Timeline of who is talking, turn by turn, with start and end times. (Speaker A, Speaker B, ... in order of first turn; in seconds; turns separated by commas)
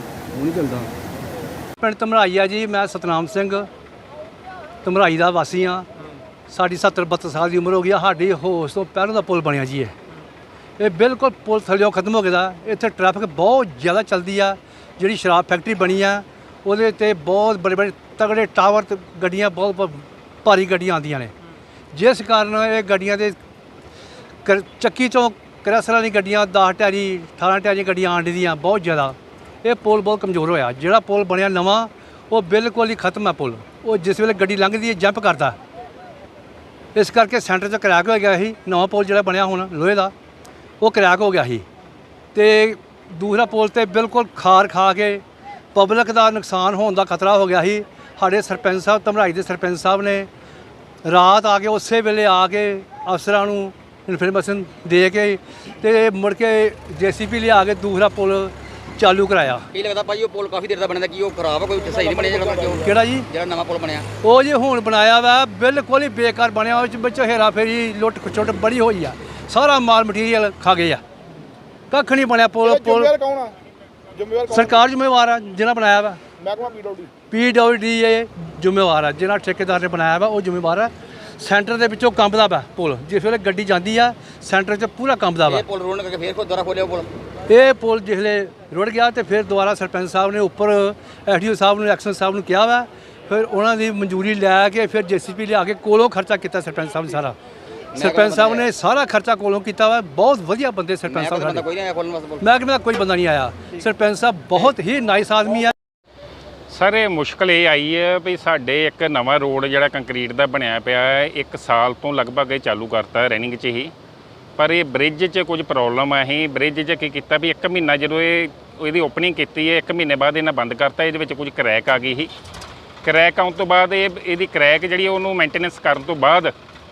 Speaker A: 0.3-0.9, Speaker B: 1.8-3.7, Speaker B: 4.8-5.8, Speaker B: 6.5-9.9, Speaker B: 10.8-21.3, Speaker B: 21.9-23.4, Speaker B: 24.4-35.6, Speaker B: 36.9-40.1, Speaker B: 40.8-41.6, Speaker B: 42.3-45.2, Speaker B: 45.7-50.3, Speaker B: 51.0-59.7, Speaker A: 59.8-62.0, Speaker C: 59.8-62.9, Speaker D: 61.8-63.1, Speaker B: 62.9-63.3, Speaker A: 63.4-63.9, Speaker C: 63.4-64.0, Speaker B: 64.2-71.0, Speaker B: 71.9-73.1, Speaker D: 72.6-73.5, Speaker D: 74.1-74.8, Speaker B: 74.5-76.2, Speaker D: 76.4-77.1, Speaker B: 77.3-85.7, Speaker A: 85.5-87.0, Speaker C: 85.5-87.1, Speaker B: 87.5-97.3, Speaker B: 97.9-101.7, Speaker A: 98.0-98.6, Speaker C: 98.0-98.6, Speaker C: 101.1-102.4, Speaker A: 101.1-101.6, Speaker B: 102.4-105.7, Speaker E: 106.7-113.9, Speaker E: 114.6-122.3, Speaker E: 123.0-126.5